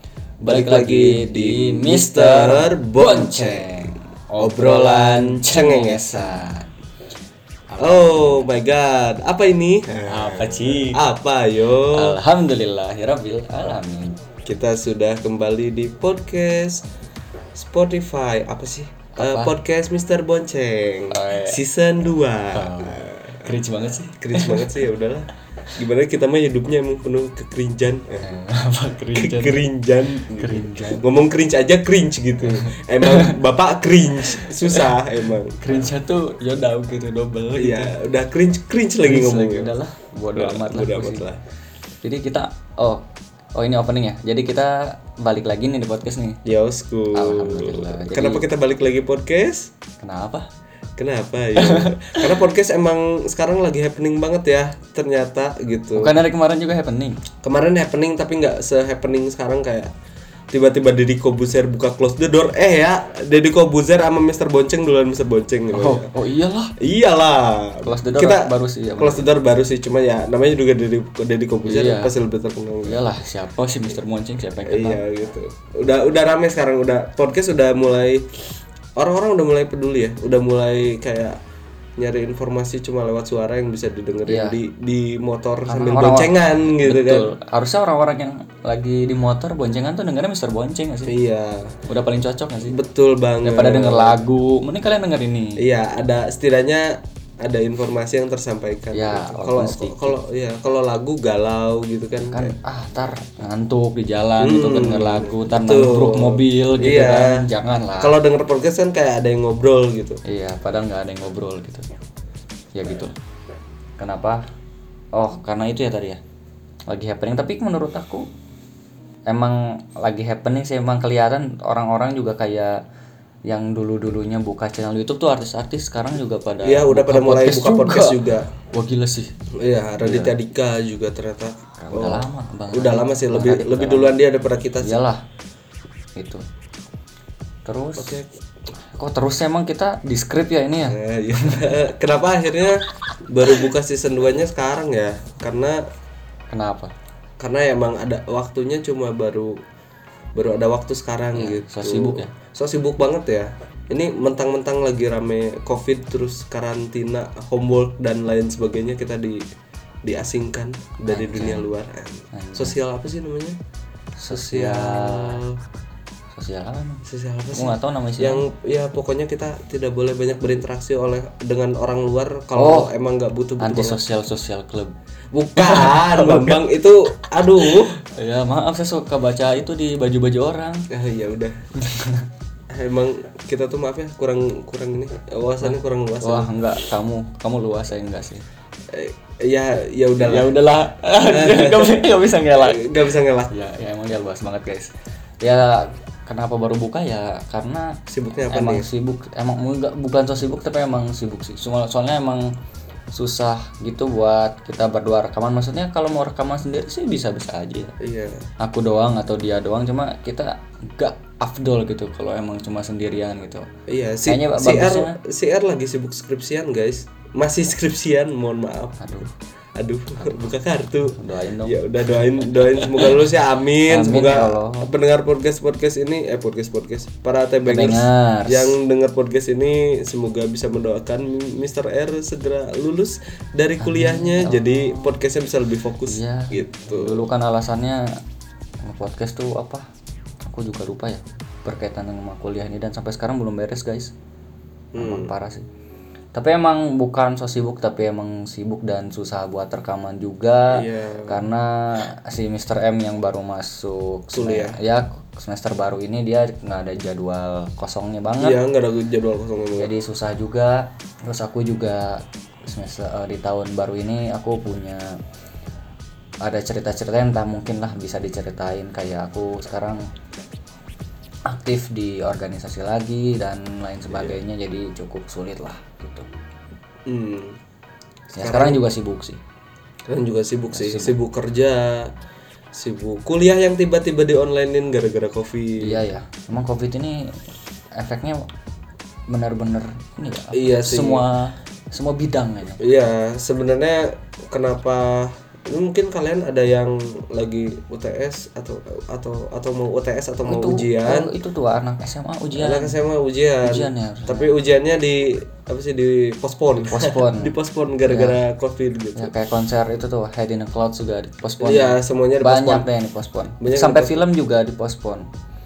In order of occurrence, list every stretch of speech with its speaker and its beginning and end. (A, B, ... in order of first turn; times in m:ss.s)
0:00.4-0:06.7 A
0:00.4-0:06.4 B
0:07.7-0:08.5 A
0:07.8-0:12.2 B
0:10.0-0:11.0 A
0:11.9-0:14.2 A
0:14.5-0:16.8 B
0:17.6-0:23.4 B
0:19.1-0:19.6 A
0:21.1-0:21.6 A
0:22.5-0:24.8 A
0:24.2-0:28.3 B
0:28.2-0:29.6 A
0:29.1-0:35.6 B
0:30.2-0:31.1 A
0:32.5-0:33.4 A
0:34.2-0:34.8 A
0:35.6-0:37.9 A
0:37.6-0:39.7 B
0:39.0-0:41.2 A
0:40.3-0:41.4 B
0:42.0-0:43.0 A
0:43.6-0:46.4 A
0:46.4-0:49.7 B
0:47.1-0:48.4 A
0:50.0-0:50.5 A
0:51.0-0:56.1 B
0:51.6-0:52.2 A
0:56.0-0:57.2 A
0:57.4-0:59.9 B
1:00.5-1:06.1 B
1:05.7-1:06.7 A
1:06.8-1:13.0 B
1:07.8-1:09.3 A
1:11.6-1:12.1 A
1:12.8-1:15.0 A
1:14.6-1:18.3 B
1:19.0-1:21.4 B
1:22.0-1:27.3 B
1:24.3-1:24.6 A
1:25.7-1:31.1 A
1:31.1-1:31.7 B
1:31.9-1:32.8 A
1:32.7-1:34.2 B
1:33.4-1:35.6 A
1:35.6-1:42.5 B
1:38.9-1:40.2 A
1:42.3-1:48.2 A
1:44.4-1:47.4 B
1:48.0-1:50.2 B
1:50.2-1:51.9 A
1:52.7-1:53.1 A
1:54.0-1:54.4 A
1:55.1-1:56.2 A
1:56.9-1:58.3 A
1:59.3-2:02.8 A
2:03.5-2:09.3 A
2:06.6-2:08.5 B
2:09.6-2:15.0 B
2:10.0-2:10.3 A
2:11.8-2:14.2 A
2:14.8-2:15.2 A
2:16.2-2:16.4 A
2:17.6-2:18.2 A
2:18.0-2:18.3 B
2:18.9-2:21.5 A
2:20.8-2:25.8 B
2:26.5-2:26.9 A
2:27.4-2:29.6 B
2:30.3-2:39.4 B
2:31.3-2:32.3 A
2:40.0-2:43.6 B
2:41.0-2:41.6 A
2:42.3-2:42.8 A
2:44.2-2:45.4 A
2:44.3-2:45.6 B
2:46.3-2:48.4 A
2:47.0-2:54.0 B
2:52.6-2:52.9 A
2:53.6-2:55.0 A
2:55.3-2:57.9 B
2:55.6-2:56.6 A
2:57.6-3:00.8 A
3:00.9-3:01.5 B
3:01.8-3:02.2 A
3:02.7-3:06.8 B
3:05.6-3:08.4 A
3:08.9-3:10.5 B
3:10.2-3:22.5 A
3:11.3-3:13.5 B
3:18.1-3:18.9 B
3:23.1-3:27.9 A
3:28.0-3:28.4 B
3:28.6-3:33.7 A
3:33.9-3:57.2 B
3:34.2-3:35.2 A
3:39.0-3:39.3 A
3:41.0-3:43.3 A
3:43.8-3:44.9 A
3:47.6-3:48.8 A
3:53.8-3:54.9 A
3:56.0-3:58.0 A
3:58.8-3:59.8 A
4:00.4-4:04.1 A
4:04.9-4:05.3 B
4:05.0-4:05.7 A
4:06.3-4:18.6 A
4:10.7-4:11.4 B
4:14.3-4:14.8 B
4:18.4-4:19.9 B
4:19.8-4:25.2 A
4:26.4-4:30.0 A
4:31.5-4:36.3 A
4:34.1-4:34.4 B
4:37.1-4:37.6 B
4:38.3-4:39.4 A
4:38.4-4:38.8 B
4:40.1-4:42.1 B
4:40.7-4:41.2 A
4:42.8-4:46.0 B
4:45.8-4:47.3 A
4:48.0-4:48.5 A
4:49.3-4:52.8 A
4:50.5-4:51.2 B
4:52.8-5:01.3 B
5:00.4-5:03.0 A
5:02.6-5:09.3 B
5:03.6-5:04.5 A
5:06.8-5:07.5 A
5:08.0-5:08.4 A
5:09.2-5:15.2 A
5:11.6-5:12.9 B
5:13.6-5:14.2 B